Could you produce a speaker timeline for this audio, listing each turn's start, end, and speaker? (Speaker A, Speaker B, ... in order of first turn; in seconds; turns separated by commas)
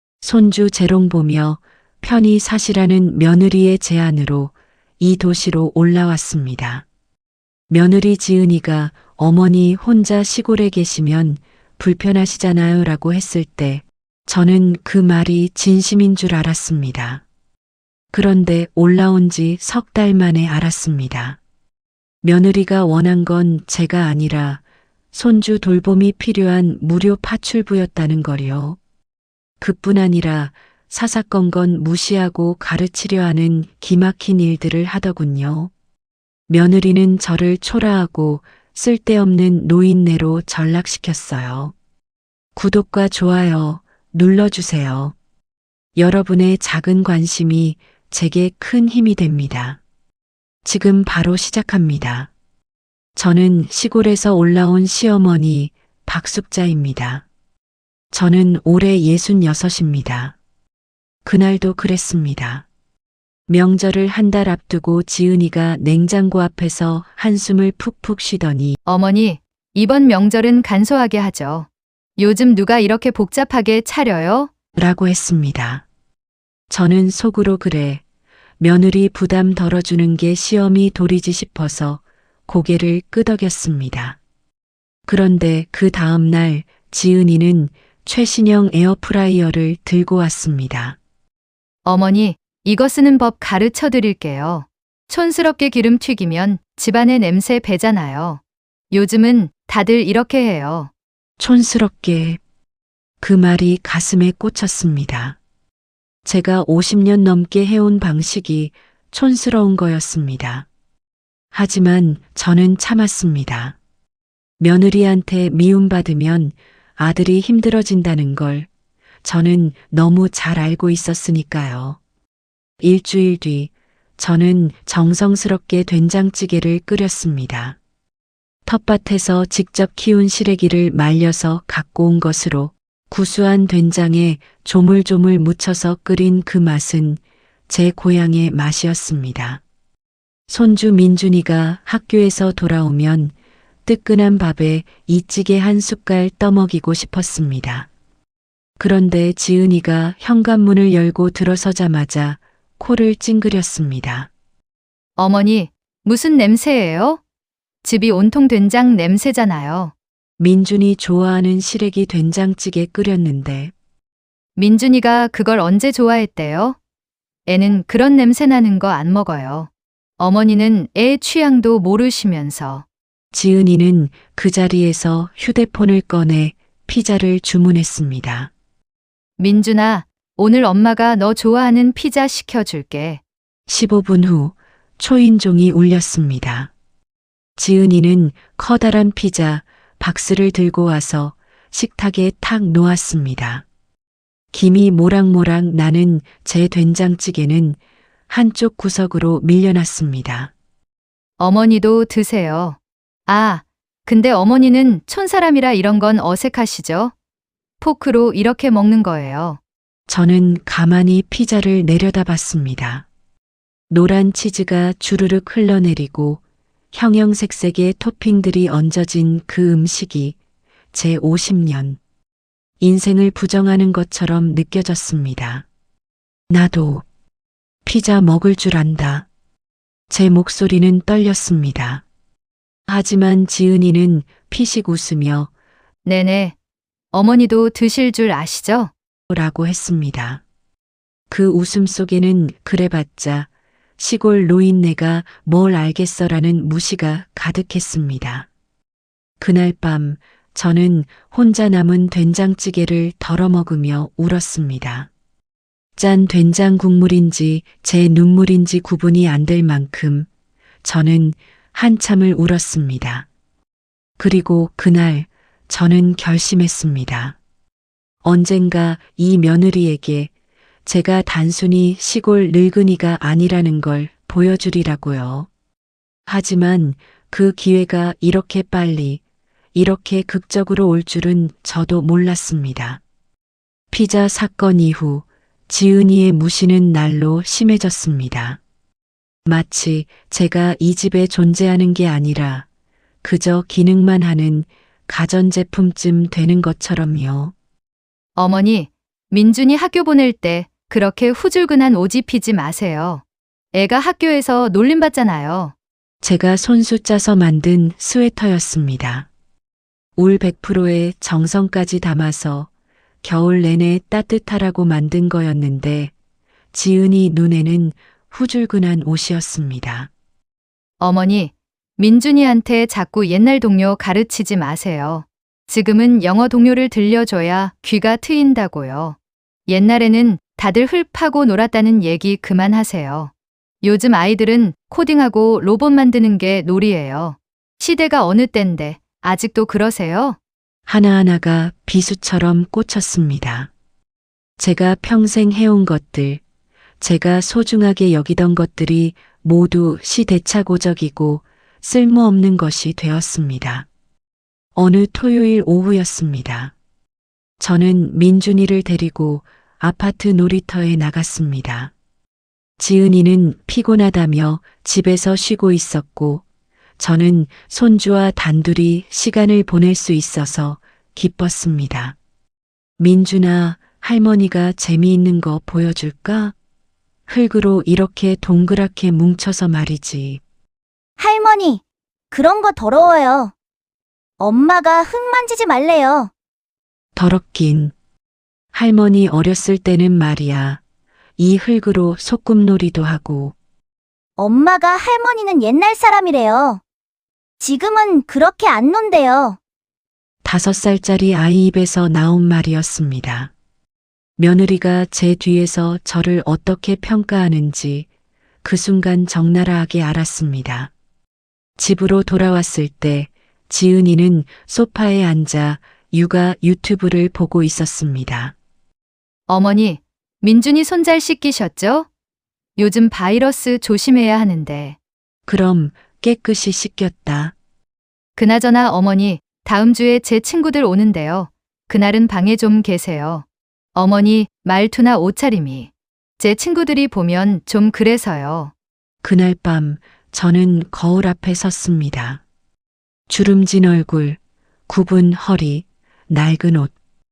Speaker A: 0.2-6.8, Speaker A: 7.7-17.2, Speaker A: 18.1-21.4, Speaker A: 22.2-24.6, Speaker A: 25.1-28.8, Speaker A: 29.6-35.7, Speaker A: 36.5-41.7, Speaker A: 42.5-45.1, Speaker A: 46.0-49.8, Speaker A: 50.6-52.3, Speaker A: 53.1-57.2, Speaker A: 58.1-60.4, Speaker A: 61.2-62.6, Speaker A: 63.5-68.8, Speaker B: 68.8-74.5, Speaker A: 74.7-75.8, Speaker A: 76.7-78.0, Speaker A: 78.6-84.2, Speaker A: 85.1-91.0, Speaker B: 91.8-100.9, Speaker A: 101.4-102.4, Speaker A: 103.2-105.4, Speaker A: 106.2-110.7, Speaker A: 111.5-113.8, Speaker A: 114.6-118.7, Speaker A: 119.2-122.0, Speaker A: 122.8-127.8, Speaker A: 128.7-139.6, Speaker A: 140.5-143.3, Speaker A: 143.8-147.9, Speaker A: 148.8-154.3, Speaker B: 155.2-157.2, Speaker B: 157.8-159.9, Speaker A: 160.4-163.7, Speaker B: 164.6-166.8, Speaker B: 167.5-172.8, Speaker A: 173.3-178.5, Speaker B: 179.4-183.2, Speaker A: 183.7-186.7, Speaker A: 187.6-193.6, Speaker A: 194.5-197.8, Speaker A: 198.3-200.5, Speaker B: 201.4-207.1, Speaker B: 207.8-209.6, Speaker A: 210.1-213.1, Speaker A: 213.9-216.4, Speaker A: 216.9-220.4, Speaker A: 220.9-222.0, Speaker A: 222.8-225.7, Speaker A: 226.5-227.0, Speaker A: 227.8-229.3, Speaker A: 230.1-232.0, Speaker A: 232.9-235.5, Speaker B: 236.0-236.5, Speaker B: 237.1-238.9, Speaker A: 239.3-240.4, Speaker A: 241.3-248.5, Speaker A: 249.4-255.1, Speaker A: 255.9-260.3, Speaker A: 260.8-263.3, Speaker A: 264.2-267.4, Speaker A: 268.2-270.3, Speaker A: 270.9-275.5, Speaker A: 276.3-279.2, Speaker A: 279.7-283.0, Speaker A: 283.9-288.6, Speaker A: 289.4-292.6, Speaker A: 293.2-297.5, Speaker B: 298.4-305.7, Speaker A: 306.2-309.3, Speaker A: 310.2-312.7, Speaker A: 313.2-316.1, Speaker A: 316.7-320.1, Speaker B: 321.0-329.1, Speaker B: 329.7-333.3, Speaker B: 333.8-340.4, Speaker A: 340.9-343.7, Speaker A: 344.6-346.4, Speaker A: 347.0-353.9, Speaker A: 354.7-356.7, Speaker A: 357.6-361.9, Speaker A: 362.8-366.4, Speaker A: 367.0-372.1, Speaker A: 373.0-376.5, Speaker A: 377.3-380.4, Speaker C: 381.2-383.5, Speaker C: 384.4-386.3, Speaker A: 387.1-387.9, Speaker A: 388.7-390.8, Speaker A: 391.4-393.5, Speaker C: 394.4-396.8, Speaker C: 397.6-399.6, Speaker A: 400.4-403.5, Speaker A: 404.4-408.1, Speaker A: 408.6-410.9, Speaker A: 411.8-418.5, Speaker B: 419.5-422.1, Speaker B: 422.8-424.9, Speaker A: 425.5-427.5, Speaker B: 428.4-433.4, Speaker B: 433.9-438.7, Speaker A: 439.2-442.4, Speaker A: 443.3-446.9